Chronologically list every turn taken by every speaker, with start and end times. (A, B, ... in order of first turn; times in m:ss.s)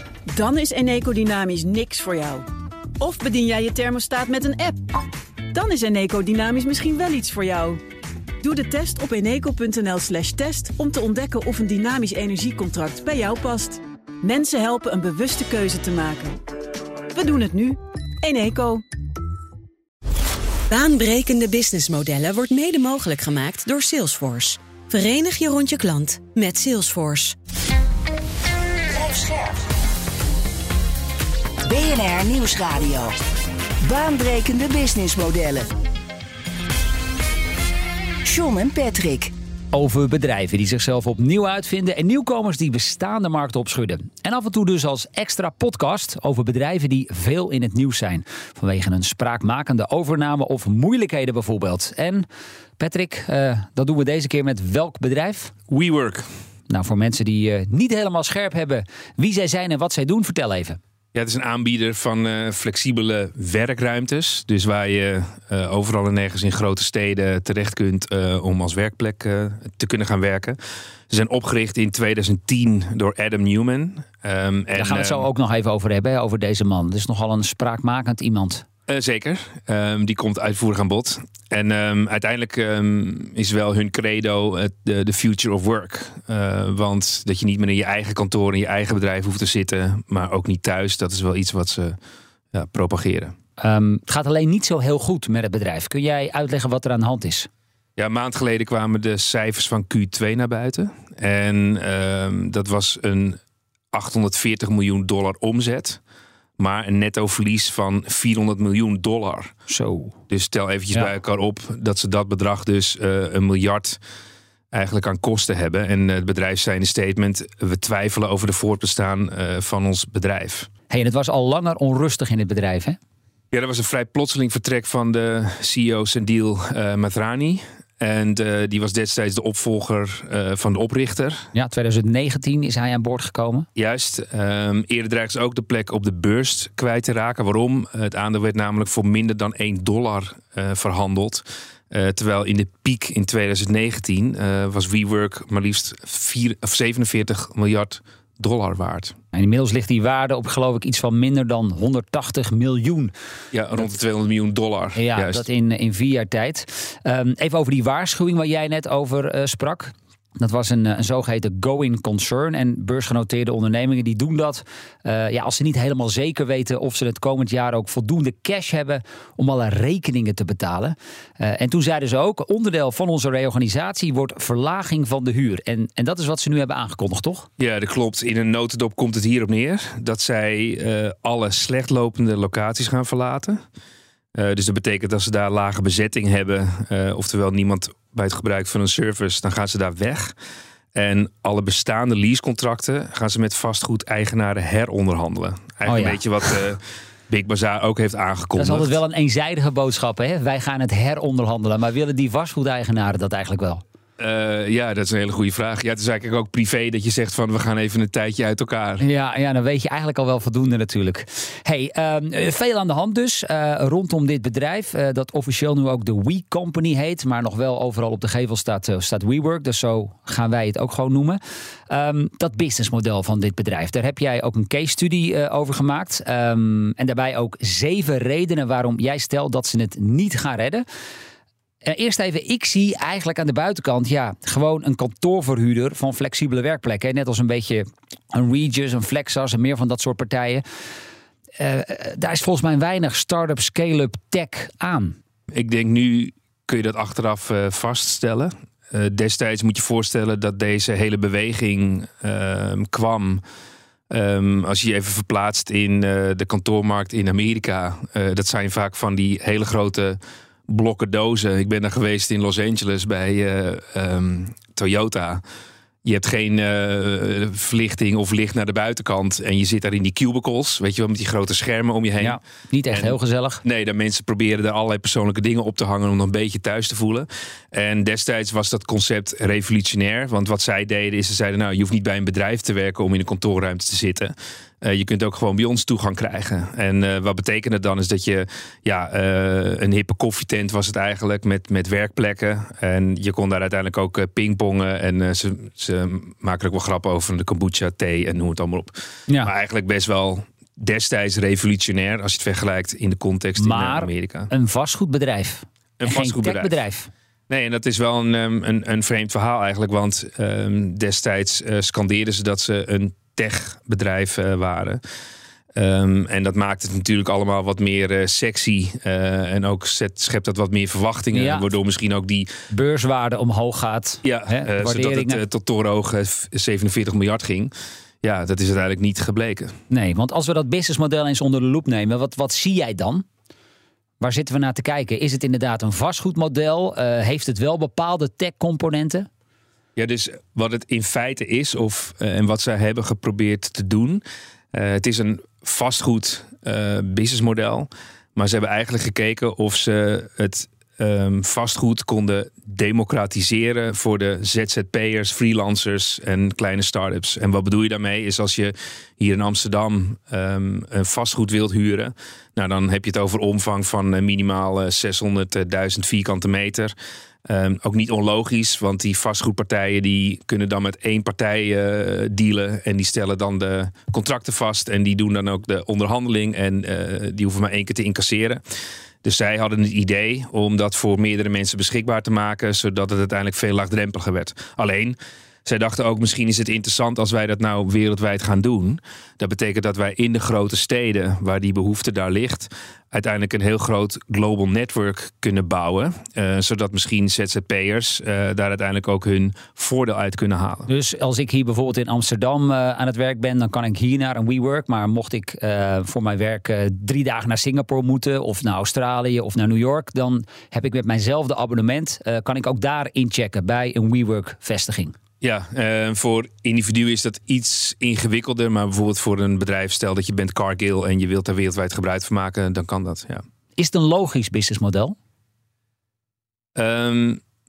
0:00.3-0:02.4 A
0:03.0-0:04.8 A
0:05.5-0:07.8 A
0:08.4-0:16.4 A
0:17.1-0:18.8 A
0:20.7-0:27.3 B
0:28.9-0:29.6 C
0:31.6-0:33.1 C
0:33.8-0:35.7 C
0:38.2-0:39.3 C
0:39.7-0:52.2 D
0:52.8-0:55.5 D
0:55.7-0:56.3 E
0:56.7-1:00.8 D
1:01.1-1:10.6 E
1:11.1-1:15.3 E
1:14.7-1:18.6 D
1:18.9-1:32.0 E
1:32.5-1:33.3 E
1:33.6-1:37.5 D
1:38.0-1:43.4 E
1:43.9-1:46.0 E
1:46.6-1:49.5 E
1:49.7-1:50.2 D
1:50.3-1:54.0 E
1:54.7-2:00.7 E
2:00.9-2:03.0 D
2:03.5-2:11.5 E
2:11.5-2:13.7 D
2:13.7-2:29.1 E
2:29.3-2:33.1 D
2:33.5-2:35.4 E
2:35.0-2:57.5 D
2:57.6-3:03.6 E
3:04.3-3:10.3 E
3:10.9-3:19.0 E
3:15.8-3:16.2 D
3:18.6-3:23.8 D
3:24.2-3:29.0 E
3:29.0-3:50.8 D
3:51.8-4:00.6 D
4:01.6-4:05.2 D
4:05.5-4:13.4 E
4:14.1-4:25.4 E
4:26.0-4:32.4 E
4:32.2-4:33.6 D
4:32.9-5:04.5 E
5:03.6-5:07.1 D
5:06.0-5:06.7 E
5:07.5-5:15.0 E
5:15.8-5:22.5 E
5:21.3-5:21.7 D
5:22.7-5:25.4 D
5:24.2-5:29.8 E
5:29.9-5:33.2 D
5:34.2-5:39.3 D
5:40.0-6:06.9 E
6:07.4-6:18.6 E
6:19.2-6:40.9 E
6:40.9-6:55.1 D
6:55.4-7:03.4 E
7:03.8-7:05.2 D
7:06.7-7:07.4 E